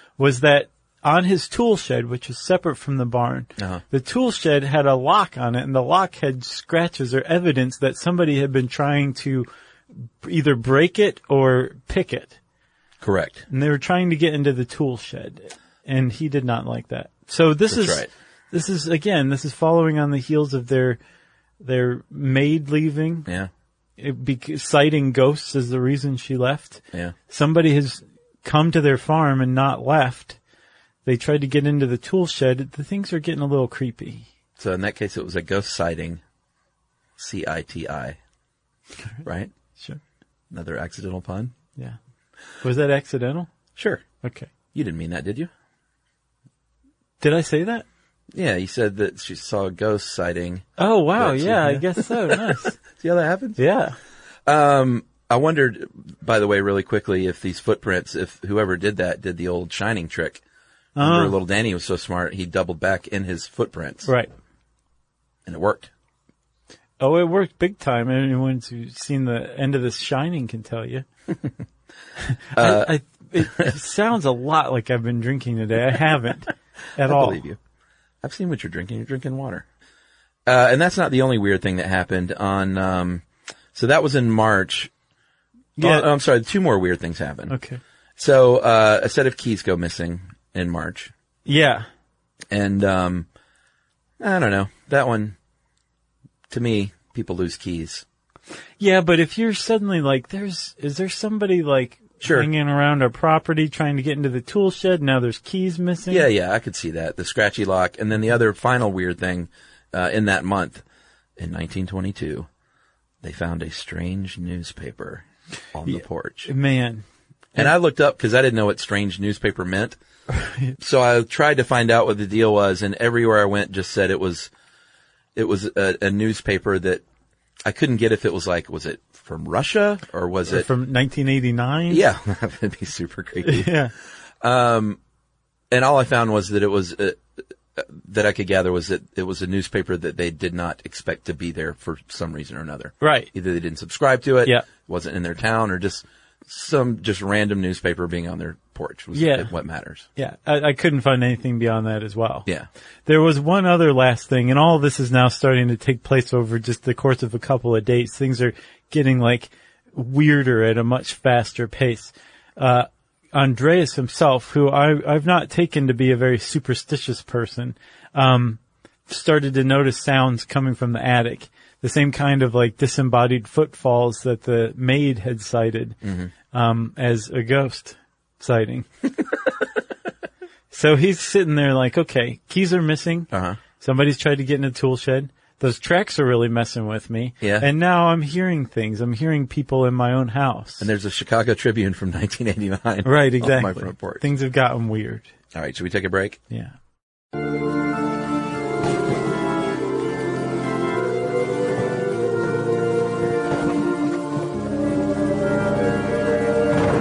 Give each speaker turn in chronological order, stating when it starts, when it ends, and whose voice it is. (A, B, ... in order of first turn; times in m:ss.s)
0:00.2-0:12.4 A
0:13.0-0:13.4 B
0:13.5-0:21.0 A
0:17.7-0:18.1 B
0:21.6-0:23.3 A
0:24.0-0:30.4 A
0:31.0-0:34.3 A
0:34.6-0:36.2 B
0:37.2-0:38.2 B
0:39.2-0:39.5 B
0:40.5-0:41.5 B
0:42.6-0:43.5 A
0:43.8-0:44.0 B
0:44.2-0:44.5 A
0:44.7-0:45.5 B
0:47.2-0:47.8 A
0:48.3-0:53.6 B
0:50.8-0:52.8 A
0:53.6-0:54.0 A
0:54.4-1:00.4 B
1:01.0-1:01.4 A
1:01.0-1:04.1 B
1:04.0-1:04.3 A
1:05.4-1:05.9 B
1:07.0-1:11.0 A
1:12.3-1:17.4 A
1:12.5-1:12.9 B
1:13.4-1:13.7 B
1:17.0-1:17.6 B
1:18.2-1:19.6 B
1:20.4-1:23.2 B
1:23.7-1:24.9 B
1:25.8-1:26.1 A
1:25.8-1:27.5 B
1:27.5-1:27.8 A
1:28.2-1:31.1 B
1:31.4-1:31.9 A
1:32.5-1:33.2 B
1:34.2-1:35.4 B
1:36.5-1:38.0 B
1:38.8-1:46.3 A
1:42.2-1:42.5 B
1:46.1-1:50.8 B
1:51.4-1:52.5 B
1:53.2-1:56.5 B
1:55.9-1:57.7 A
1:57.5-2:00.0 B
2:00.3-2:00.7 A
2:00.8-2:04.5 B
2:05.4-2:07.0 B
2:07.6-2:10.7 B
2:10.5-2:12.0 A
2:11.9-2:13.8 B
2:13.4-2:13.9 A
2:14.4-2:15.0 B
2:15.7-2:17.2 B
2:17.8-2:30.1 B
2:23.0-2:23.3 A
2:29.1-2:29.5 A
2:30.2-2:32.5 A
2:33.0-2:56.0 A
2:56.0-2:56.3 B
2:56.5-2:58.9 A
3:00.7-3:10.9 A
3:03.3-3:03.6 B
3:07.4-3:07.7 B
3:10.8-3:14.2 B
3:13.0-3:15.3 A
3:15.5-3:16.4 B